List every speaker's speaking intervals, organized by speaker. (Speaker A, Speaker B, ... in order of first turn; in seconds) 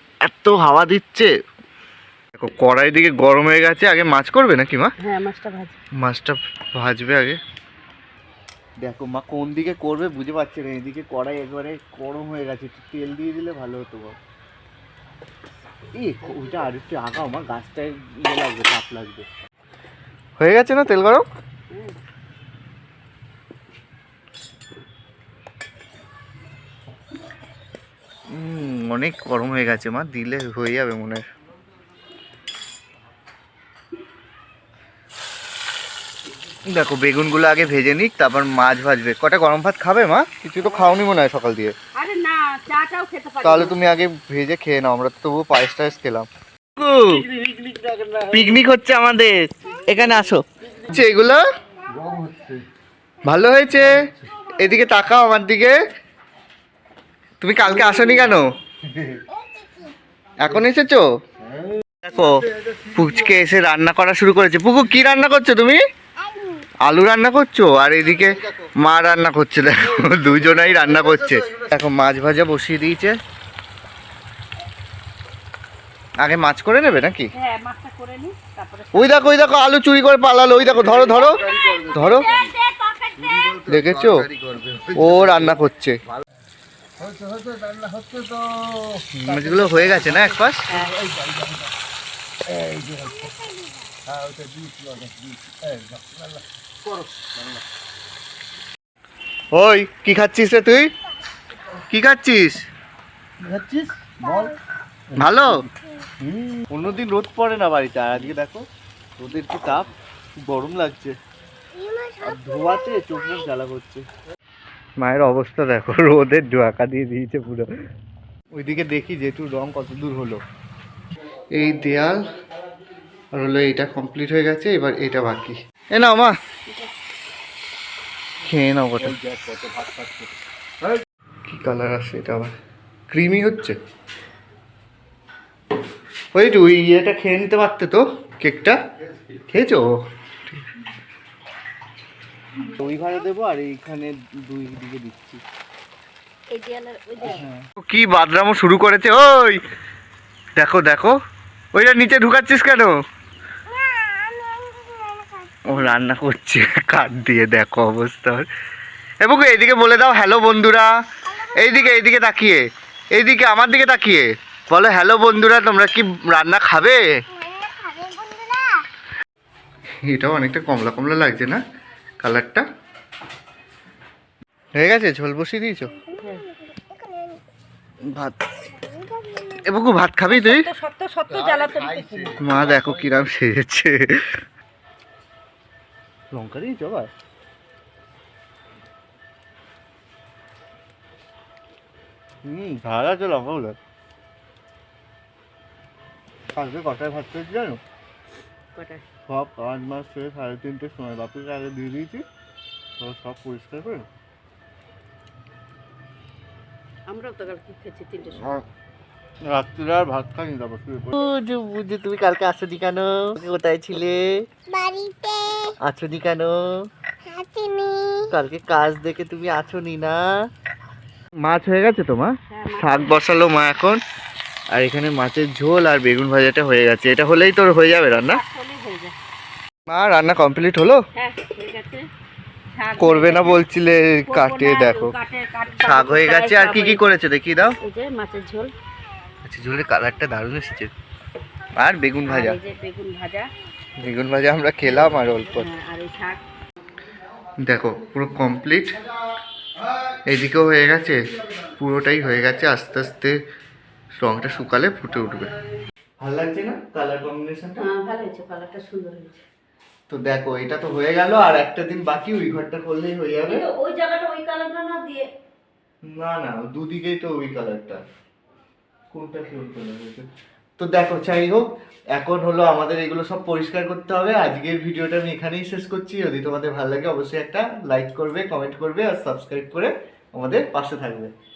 Speaker A: 0.2-1.3, 2.4-4.9, 6.0-7.4, 8.8-14.2, 16.0-19.2, 20.4-21.2, 28.3-31.2, 36.7-41.7, 43.4-47.2, 48.3-51.4, 53.2-55.8, 57.4-58.5, 60.4-61.0, 62.0-65.8, 66.8-73.1, 76.2-77.3, 78.9-82.3, 83.6-84.3, 84.9-86.0, 89.2-90.7, 99.5-100.9, 101.9-102.6, 105.2-105.5, 106.7-108.6, 109.2-109.9, 110.4-111.1, 112.2-114.0, 115.0-117.7, 118.5-120.4, 121.5-122.2, 123.3-126.3, 128.4-129.2, 131.4-132.5, 133.1-133.8, 136.3-138.8, 139.4-139.9, 142.7-145.4, 147.8-149.6, 150.6-151.2, 151.7-152.9, 155.7-158.5, 159.2-162.6, 163.1-167.0, 170.0-171.6, 172.2-172.7, 174.8-176.0, 178.0-178.7, 179.5-180.7, 182.4-184.4, 186.3-187.1, 192.4-193.8, 196.5-197.8, 199.3-202.2, 203.0-204.1, 208.3-208.6, 209.5-214.4, 215.8-216.9, 218.2-220.3, 221.4-224.0, 224.7-228.4, 229.9-231.0, 233.0-235.1, 235.8-237.8, 239.4-240.9, 241.8-242.6, 244.0-245.7, 247.6-249.0, 250.1-253.3, 254.2-255.5, 256.2-257.8, 260.1-263.6, 266.0-268.0, 269.1-270.2, 270.8-271.6, 272.1-281.3
Speaker B: 5.0-5.8, 21.7-21.9, 40.6-41.0, 41.9-43.8, 77.3-79.4, 80.8-83.6, 90.7-90.9, 146.5-147.4, 176.2-176.4, 180.3-182.4, 198.7-199.0, 207.1-208.6, 222.5-223.2, 228.1-229.1, 231.1-232.1, 232.7-233.6, 234.2-237.1, 237.8-238.7, 242.2-243.5, 245.5-246.4, 257.8-259.4, 263.5-265.3
Speaker C: 47.1-48.5, 51.9-52.6, 53.9-54.3, 58.8-59.2, 61.4-63.4, 70.8-71.7, 80.7-82.5, 83.2-85.5, 87.0-91.7, 92.5-93.3, 94.0-97.6, 103.4-104.6, 105.1-105.7, 129.0-130.3, 181.3-183.2
Speaker D: 66.3-66.6, 111.8-113.3, 153.9-155.6, 167.4-168.8, 176.1-177.4, 214.7-215.7, 217.3-218.2